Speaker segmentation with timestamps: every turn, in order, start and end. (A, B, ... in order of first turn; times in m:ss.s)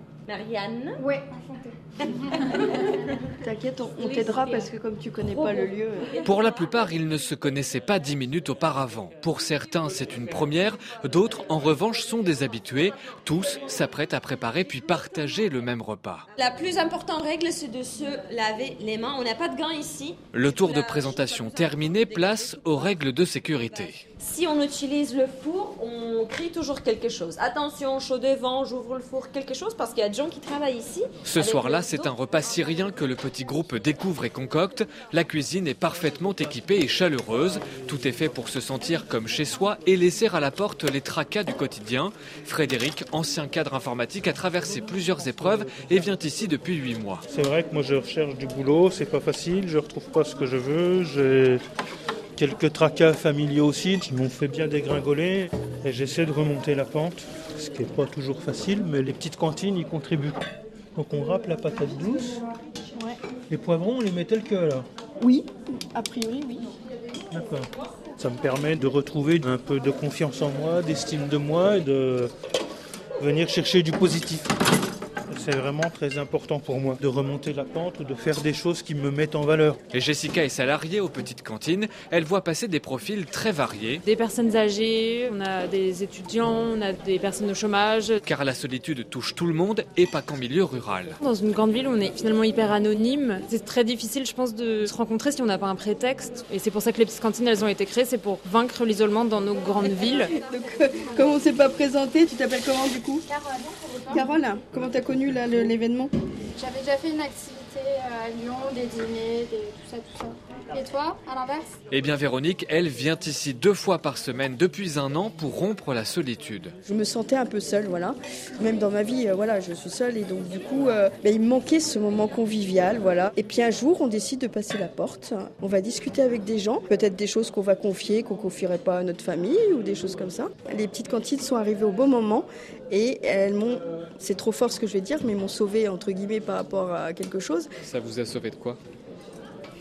0:00.2-0:01.0 A
0:01.0-0:01.7 B
0:02.4-0:03.0 A
0:03.4-0:06.1 C
0:04.0-0:04.6 A
0:05.2-0:06.2 A
0:06.2-0:16.2 D
0:16.3-0:23.0 A
0:20.3-0:24.0 D
0:24.1-0:32.1 A
0:31.2-0:47.2 D
0:44.9-0:45.9 E
0:47.3-0:51.6 E
0:52.4-1:00.4 E
1:00.9-1:02.4 E
1:03.5-1:04.8 E
1:05.2-1:06.7 C
1:07.3-1:12.3 E
1:13.2-1:14.5 E
1:15.3-1:19.8 E
1:19.9-1:24.0 D
1:24.0-1:28.2 F
1:28.2-1:31.2 D
1:31.2-1:40.3 F
1:40.3-1:43.2 C
1:43.3-1:44.3 B
1:44.1-1:46.1 C
1:46.6-1:51.7 B
1:51.9-1:56.8 D
1:56.8-2:17.7 C
2:17.8-2:18.8 D